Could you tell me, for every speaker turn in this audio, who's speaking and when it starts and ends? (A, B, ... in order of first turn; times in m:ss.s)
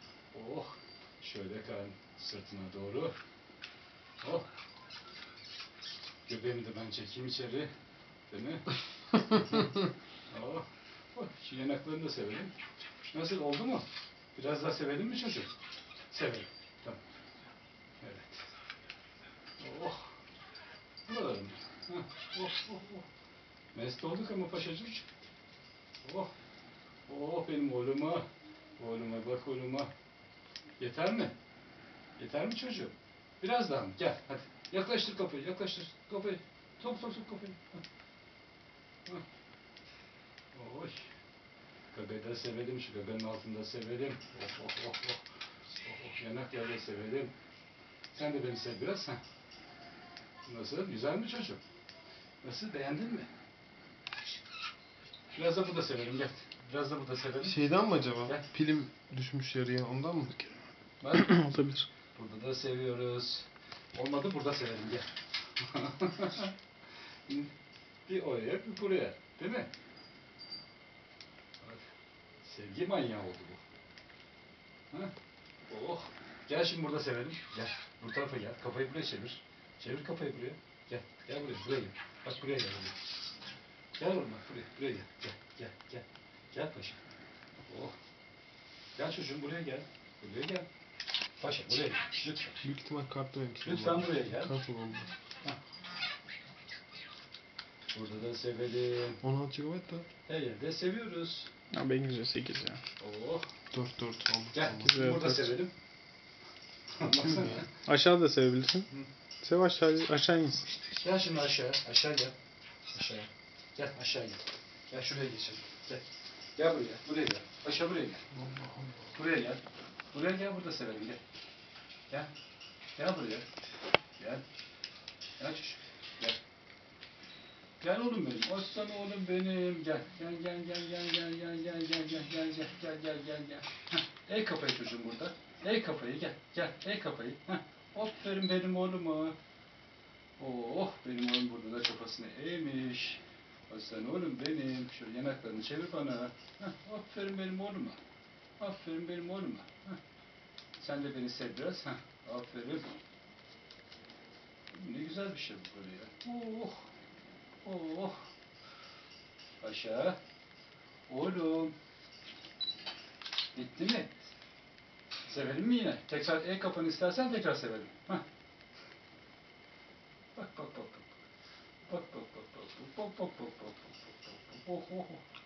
0:00.3-0:03.1 A
0:04.2-0:04.5 A
0:06.3-0:07.7 A
0:08.3-0:09.6 A
0:10.3-0:12.5 A
0:13.1-0:15.5 A
0:16.1-0:17.0 A
0:18.0-0:18.5 A
0:19.6-0:20.1 A
0:21.1-0:23.1 A
0:23.7-0:25.0 A
0:26.0-0:26.3 A
0:27.1-0:28.2 A
0:28.8-0:29.9 A
0:30.8-0:31.3 A
0:32.2-0:37.8 A
0:40.5-0:41.1 A
0:41.9-0:45.2 A
0:45.8-0:47.3 A
0:48.1-0:49.2 A
0:50.4-0:51.6 A
0:52.4-0:53.3 A
0:55.3-0:57.6 A
0:57.4-1:00.4 B
1:01.0-1:01.5 A
1:01.1-1:01.9 C
1:02.2-1:06.5 A
1:07.3-1:07.5 A
1:08.1-1:09.7 A
1:12.4-1:13.6 A
1:15.7-1:23.0 A
1:24.0-1:27.0 A
1:27.7-1:28.0 A
1:29.0-1:30.7 A
1:31.4-1:32.6 A
1:32.6-1:35.1 B
1:33.6-1:34.5 A
1:37.9-1:39.2 A
1:39.2-1:40.1 B
1:40.3-1:41.5 A
1:41.7-1:42.8 C
1:43.0-1:43.5 A
1:43.7-1:45.1 B
1:44.5-1:45.7 A
1:44.8-1:45.5 C
1:47.0-1:47.7 A
1:47.9-1:48.9 C
1:49.4-1:50.7 C
1:51.0-1:52.3 A
1:52.9-1:56.0 A
1:56.6-1:58.2 A
1:58.4-1:59.0 B
1:59.1-2:01.2 A
2:03.0-2:03.5 A
2:04.2-2:04.4 A
2:05.4-2:06.4 A
2:07.8-2:19.4 A
2:20.4-2:28.0 A
2:28.6-2:30.0 A
2:30.8-2:32.9 A
2:34.7-2:36.9 A
2:37.6-2:38.3 A
2:39.6-2:40.2 A
2:41.1-2:41.7 A
2:43.5-2:44.1 A
2:45.3-2:48.2 A
2:50.4-2:51.1 A
2:51.8-2:55.2 A